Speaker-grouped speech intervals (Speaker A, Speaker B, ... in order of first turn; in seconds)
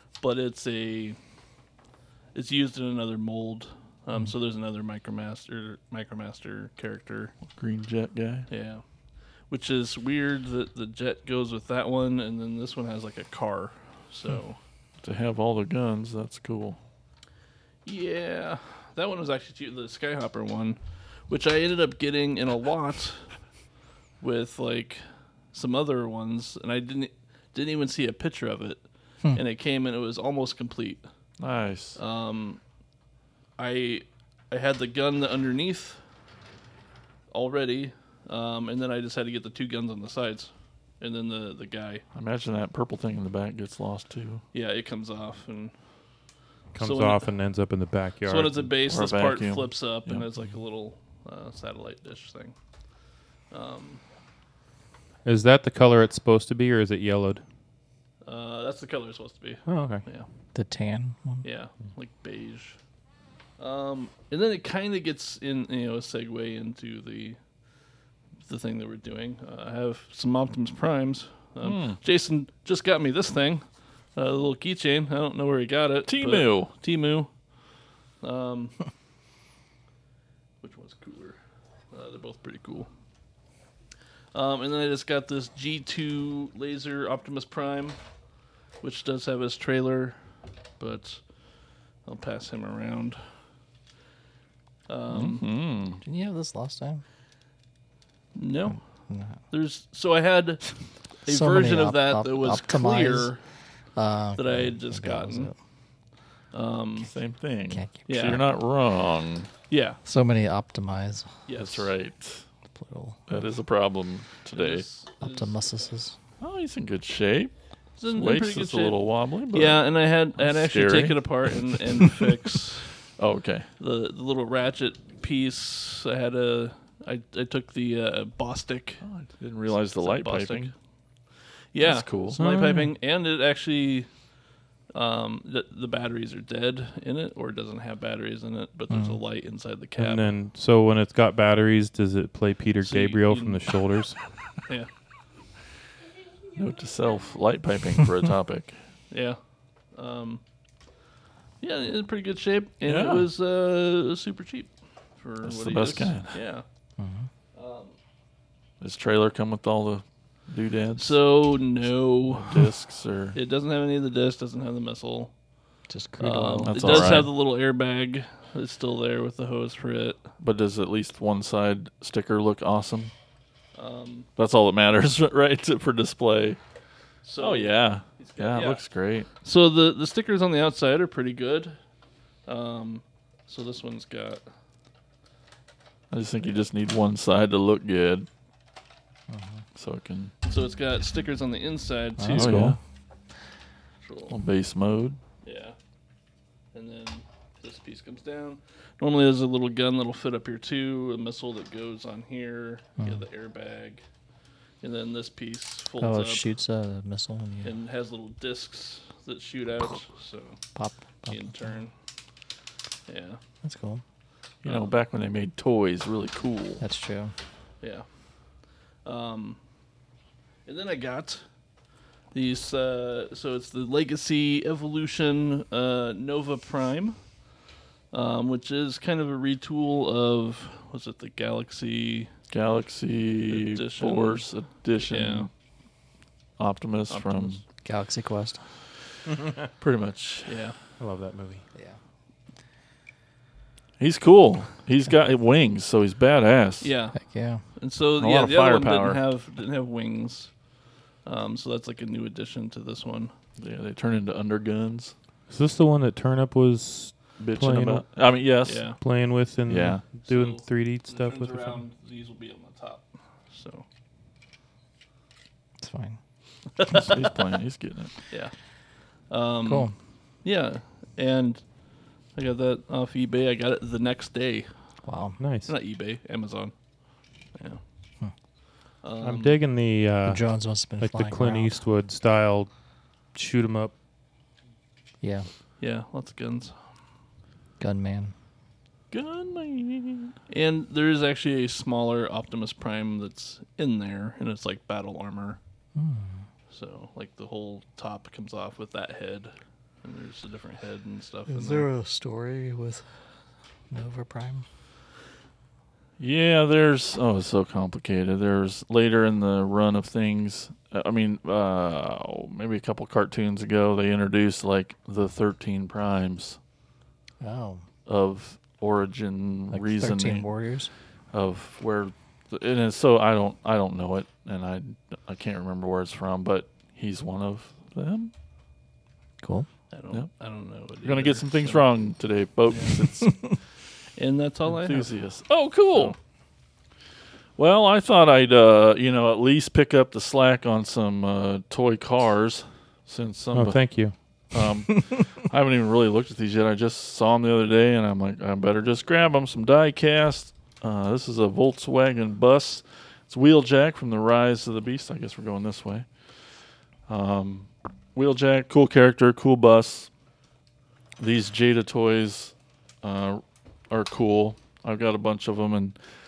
Speaker A: 0.2-1.2, 2.3-7.3, 8.5-8.8, 9.5-14.6, 17.9-20.8, 21.3-23.2, 24.2-31.0, 32.0-32.6, 33.6-36.0, 37.3-42.0, 44.5-45.7, 46.8-47.3, 48.2-52.5, 53.5-54.0, 58.3-60.3, 61.4-62.8, 63.6-67.4, 68.4-77.3, 78.2-78.8, 80.6-81.4, 81.9-82.9, 84.3-88.0, 88.8-90.2, 90.8-91.2, 92.0-93.2, 94.9-95.4, 98.3-98.8, 99.5-100.6, 101.3-103.4, 104.4-105.5, 106.5-107.1, 108.1-108.4, 109.7-110.0, 111.5-111.9, 114.5-115.8, 118.0-119.0, 119.5-122.9, 123.8-129.0, 129.9-130.7, 131.7-134.1, 134.9-140.3, 142.8-143.6, 149.1-149.4, 149.9-150.4, 151.6-156.6, 157.6-157.9, 161.0-162.6, 163.3-165.3, 166.2-170.2, 173.8-174.3, 177.2-178.8, 179.4-181.8, 182.4-184.4, 190.4-192.8, 194.0-194.3, 195.4-195.8, 196.7-204.0, 204.8-206.5, 207.6-210.6, 211.3-211.9, 213.1-213.4, 214.6-214.9, 219.1-219.6, 220.7-221.4, 222.3-227.2, 228.1-232.3, 233.5-234.4, 235.1-235.5, 237.1-237.6, 240.4-240.8, 246.8-247.2, 247.8-250.5, 251.2-253.3, 258.6-259.0, 260.2-263.9, 266.8-267.2, 269.3-269.9, 270.4-271.6, 272.4-274.7, 275.7-276.7, 277.6-277.8, 279.0-279.6, 285.8-286.8, 290.5-295.6, 296.7-301.9, 329.9-331.8, 332.7-333.1, 334.2-335.1
Speaker B: 7.6-8.5, 15.0-16.8, 31.4-32.0, 42.1-44.4, 48.9-50.3, 71.6-72.0, 76.1-76.7, 95.1-96.0, 107.0-109.5, 111.6-112.4, 113.3-114.8, 116.4-117.5, 118.1-121.3, 123.2-123.7, 129.0-130.7, 131.8-132.4, 146.6-148.8, 152.8-153.3, 155.4-156.4, 158.8-161.2, 162.3-163.4, 166.6-167.3, 170.4-173.1, 174.4-176.6, 177.4-179.3, 186.1-188.3, 189.8-190.3, 192.3-192.8, 194.3-195.2, 214.6-216.8, 232.5-235.5, 236.6-237.6, 239.8-240.5, 244.0-246.9, 248.2-249.2, 253.6-255.1, 257.4-258.9, 259.7-260.1, 266.9-268.1, 289.1-290.4, 306.2-316.6, 318.1-320.5, 321.3-328.3, 331.0-333.5, 334.7-336.1, 337.6-343.8, 344.5-356.1, 357.1-360.1, 361.2-365.9
Speaker C: 46.7-48.7, 55.2-57.4, 59.7-60.0, 132.4-132.9, 140.0-144.2, 241.0-241.6, 255.5-258.0, 259.0-261.8, 275.4-275.7, 279.2-280.4, 281.0-282.7, 283.3-283.9, 343.5-344.1
Speaker D: 60.5-61.4, 96.0-97.0, 99.1-99.4, 101.3-103.3, 104.0-105.5, 107.7-108.4, 110.0-111.4, 112.7-113.2, 115.2-116.2, 138.9-139.2, 157.0-157.3, 165.9-167.3, 189.3-189.6, 192.2-192.8, 203.0-203.2, 206.0-207.7, 210.8-211.8, 213.6-214.0, 216.8-217.3, 237.8-238.6, 247.2-247.6, 265.8-266.2, 269.6-269.9, 275.0-275.4, 280.3-281.8, 285.2-285.5, 287.8-288.3, 295.9-296.4, 301.5-303.1, 303.9-304.6, 317.4-317.9, 319.7-320.9, 329.4-329.7